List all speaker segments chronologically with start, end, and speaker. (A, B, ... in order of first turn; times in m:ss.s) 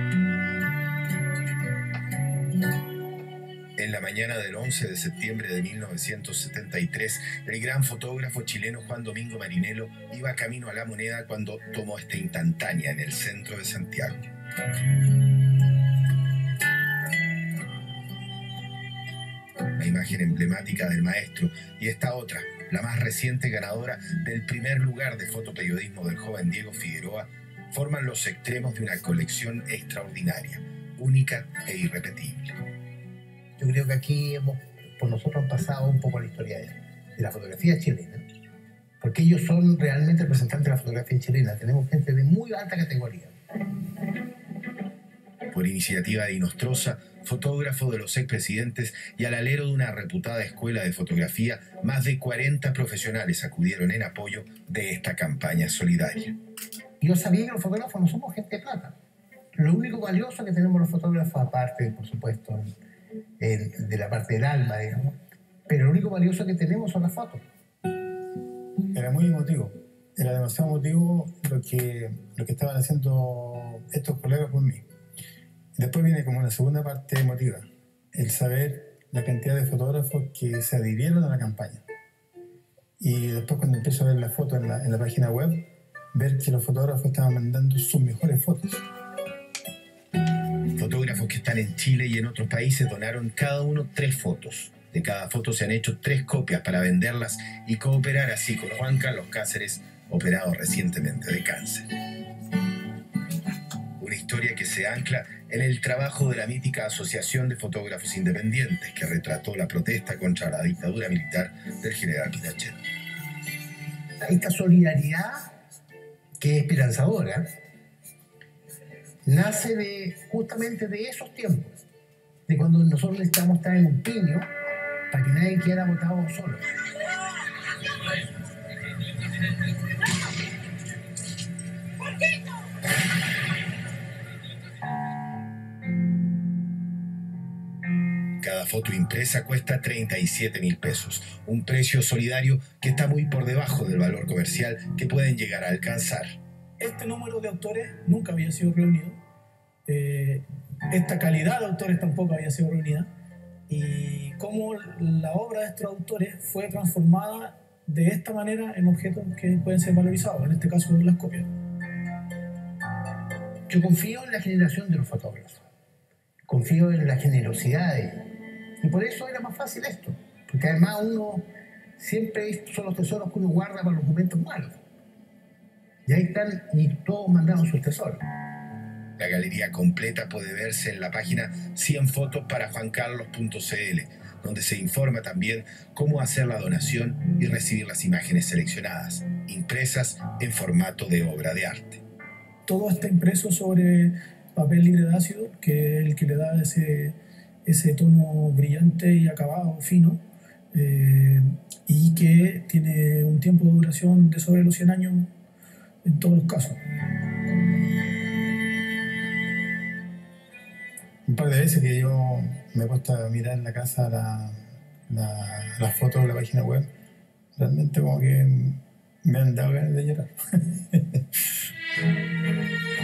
0:03.8-0:14.3 A
0:19.7-0:32.6 A
0:33.6-0:38.2 B
0:39.0-0:43.3 B
0:45.5-0:56.4 A
0:57.0-0:58.9 B
0:59.6-1:02.7 B
1:03.4-1:05.2 B
1:05.7-1:07.4 B
1:08.9-1:14.8 C
1:15.7-1:21.8 C
1:23.0-1:28.8 C
1:30.7-1:41.9 A
1:44.0-1:52.8 A
1:54.2-1:55.4 B
1:56.4-1:57.5 B
1:59.2-2:01.7 B
2:02.5-2:04.4 B
2:05.1-2:06.6 B
2:18.4-2:26.3 A
2:26.8-2:29.2 D
2:29.8-2:33.1 D
2:33.7-2:41.5 D
2:43.7-2:45.6 B
2:46.5-2:48.3 B
2:48.8-2:51.5 B
2:52.0-2:54.8 B
2:56.0-2:58.2 B
2:59.2-3:12.0 A
3:12.6-3:25.3 D
3:26.0-3:26.8 D
3:31.3-3:34.5 C
3:35.1-3:36.9 C
3:37.5-3:40.3 C